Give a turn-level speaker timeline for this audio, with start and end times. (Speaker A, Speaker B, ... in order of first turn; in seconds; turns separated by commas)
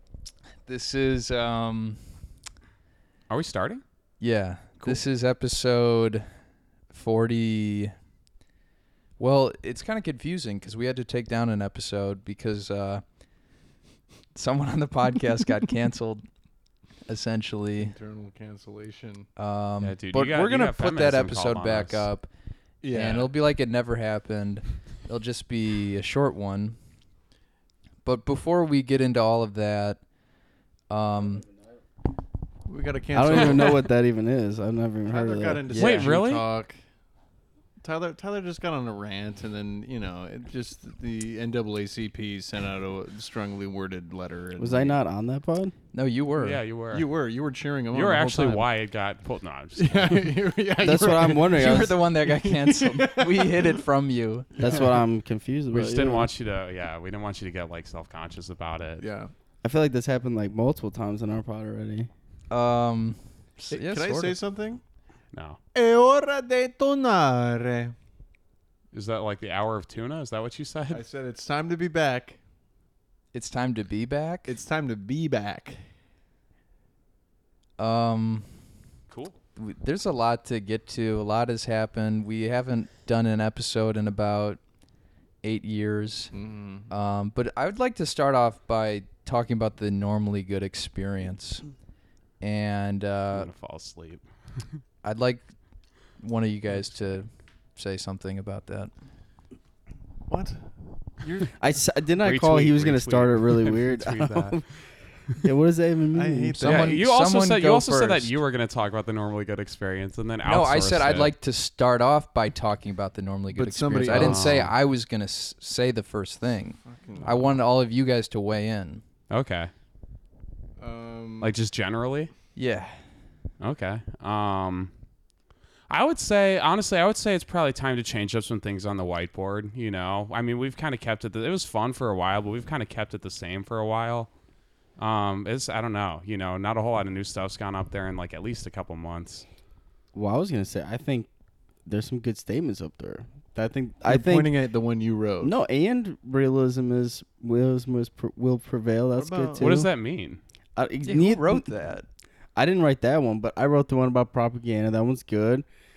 Speaker A: 0.7-2.0, Speaker B: 3.3-3.8, Speaker A: 4.2-6.2, Speaker A: 6.9-7.9, Speaker A: 9.2-13.0, Speaker A: 14.3-16.2, Speaker A: 17.1-17.9, Speaker C: 17.8-19.3, Speaker A: 19.4-22.3, Speaker B: 19.8-22.0, Speaker C: 22.8-23.3, Speaker A: 22.9-26.8, Speaker A: 28.0-30.0, Speaker A: 30.9-31.4, Speaker C: 32.7-33.8, Speaker D: 33.1-35.6, Speaker C: 35.1-36.8, Speaker A: 35.7-36.1, Speaker B: 35.7-36.5, Speaker C: 37.8-45.0, Speaker D: 44.6-45.7, Speaker A: 45.9-46.6, Speaker B: 46.4-47.0, Speaker C: 46.9-48.7, Speaker B: 47.9-50.4, Speaker C: 49.8-51.6, Speaker D: 50.8-52.0, Speaker A: 51.6-54.8, Speaker C: 52.3-53.8, Speaker D: 54.6-56.3, Speaker B: 55.7-59.0, Speaker C: 59.0-59.3, Speaker D: 59.6-62.1, Speaker A: 62.5-64.3, Speaker C: 63.7-64.8, Speaker B: 65.3-65.6, Speaker C: 65.7-67.9, Speaker B: 68.9-71.0, Speaker C: 70.9-72.4, Speaker A: 73.3-74.5, Speaker C: 74.5-75.8, Speaker A: 77.8-78.5, Speaker B: 79.1-79.3, Speaker A: 79.5-84.6, Speaker A: 85.4-86.3, Speaker C: 86.3-86.9, Speaker A: 86.9-91.6, Speaker A: 92.4-93.5, Speaker B: 93.3-94.2, Speaker A: 95.0-95.4, Speaker A: 96.2-98.9, Speaker C: 100.3-100.6, Speaker C: 101.2-101.5, Speaker D: 101.6-104.6, Speaker B: 102.2-104.6, Speaker D: 105.4-106.7, Speaker C: 106.1-107.0, Speaker B: 106.6-111.3, Speaker A: 106.6-108.3, Speaker A: 110.4-119.0, Speaker C: 113.5-114.7, Speaker B: 114.0-114.7, Speaker C: 116.9-117.5, Speaker B: 119.3-119.7, Speaker C: 120.8-121.5, Speaker B: 121.4-122.3, Speaker A: 122.5-122.9, Speaker B: 123.6-124.9, Speaker B: 125.9-134.3, Speaker B: 135.0-139.4, Speaker D: 140.1-141.3, Speaker D: 141.9-144.5, Speaker C: 144.1-145.5, Speaker D: 145.4-149.9, Speaker C: 149.2-149.7, Speaker B: 149.6-150.4, Speaker D: 150.8-151.7, Speaker A: 151.1-152.0, Speaker D: 152.6-155.6